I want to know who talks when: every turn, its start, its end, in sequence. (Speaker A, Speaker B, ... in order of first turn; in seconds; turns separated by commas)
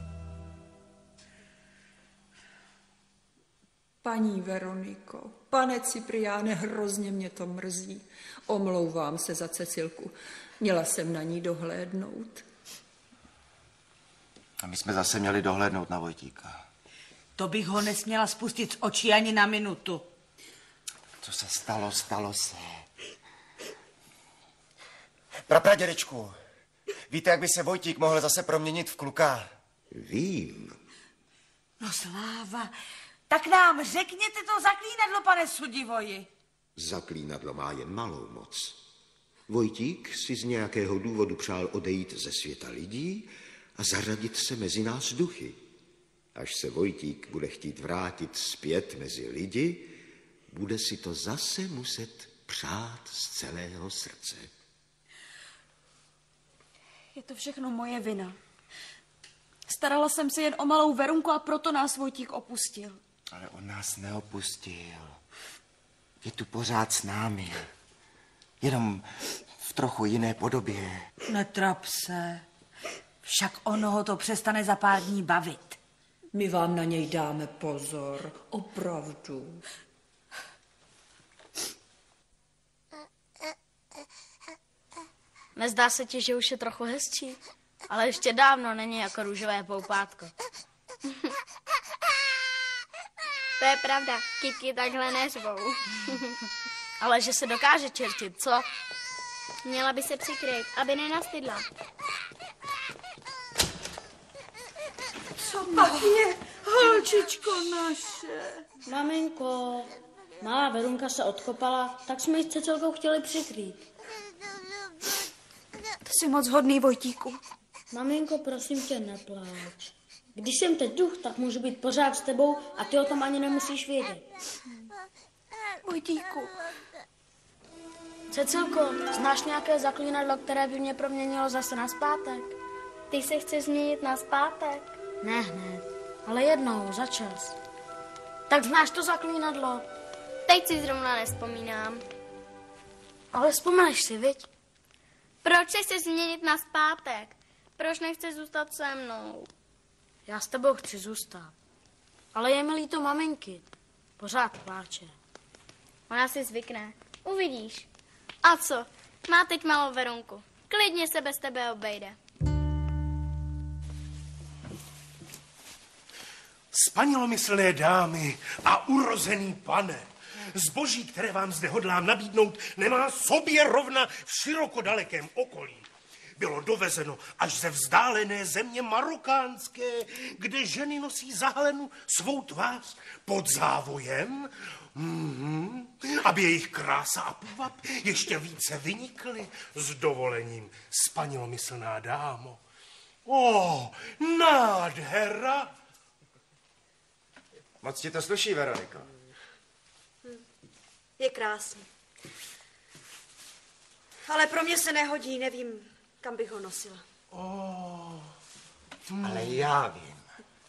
Speaker A: 4.0-12.4, Speaker B: 14.6-16.6, Speaker C: 17.4-20.1, Speaker B: 21.2-22.9, Speaker B: 25.5-26.4, Speaker B: 27.1-29.5, Speaker D: 29.9-30.8, Speaker C: 31.8-32.7, Speaker C: 33.3-36.3, Speaker D: 36.8-38.8, Speaker D: 39.5-45.6, Speaker D: 46.4-49.9, Speaker D: 50.5-54.5, Speaker E: 57.1-58.4, Speaker E: 59.7-63.0, Speaker B: 63.3-65.2, Speaker B: 66.2-67.7, Speaker B: 68.6-71.1, Speaker C: 71.2-72.4, Speaker C: 73.2-75.8, Speaker A: 76.3-79.6, Speaker F: 85.5-90.3, Speaker G: 93.6-96.4, Speaker F: 97.0-98.7, Speaker G: 99.6-101.7, Speaker E: 105.4-108.2, Speaker C: 105.8-107.9, Speaker F: 108.9-113.8, Speaker E: 116.0-117.4, Speaker F: 117.9-124.3, Speaker E: 125.8-126.5, Speaker F: 128.3-132.5, Speaker G: 133.1-134.9, Speaker F: 135.2-137.5, Speaker F: 138.5-139.8, Speaker G: 140.4-142.0, Speaker F: 143.3-144.5, Speaker G: 145.4-149.5, Speaker F: 150.2-151.5, Speaker F: 152.3-153.6, Speaker F: 154.2-155.1, Speaker G: 156.1-157.9, Speaker G: 158.4-162.2, Speaker H: 166.7-175.9, Speaker H: 176.4-192.6, Speaker H: 193.2-195.7, Speaker B: 197.8-199.1, Speaker E: 201.2-201.9, Speaker E: 204.3-207.0, Speaker H: 207.3-208.1, Speaker B: 209.2-210.2